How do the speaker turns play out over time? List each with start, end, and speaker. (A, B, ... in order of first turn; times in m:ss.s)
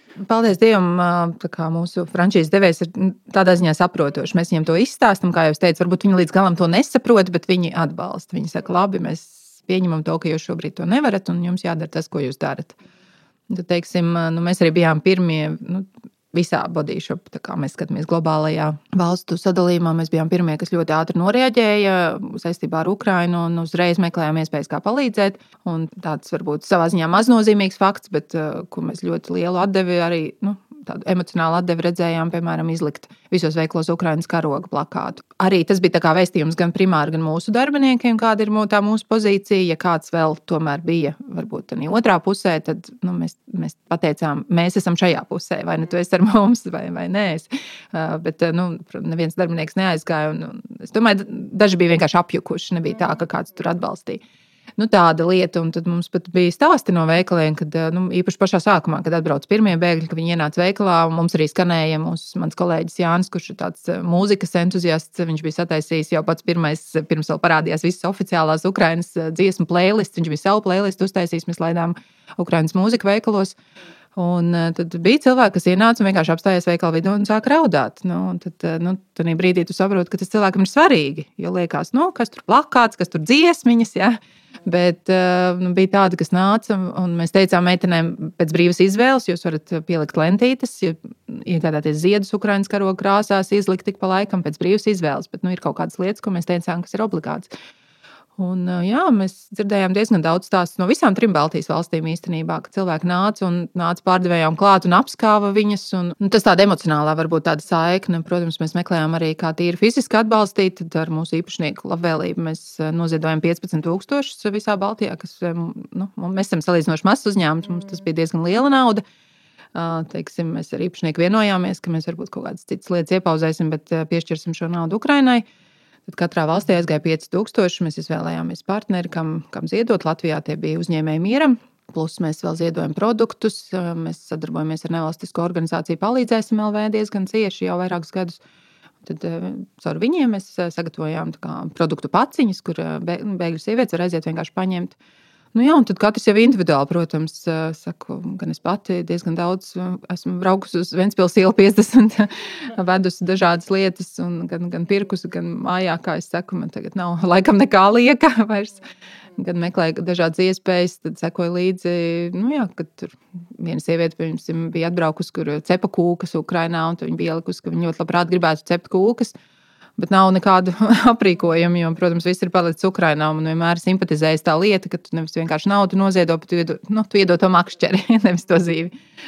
0:00.2-0:12.8 A
0:13.5-0:54.2 A
0:54.8-1:13.6 A
1:14.2-1:37.5 A
1:38.4-1:59.0 A
1:59.7-2:05.4 A
2:06.1-2:18.4 A
2:19.0-2:25.0 A
2:25.5-2:38.8 A
2:39.4-2:49.3 A
2:50.0-2:58.9 A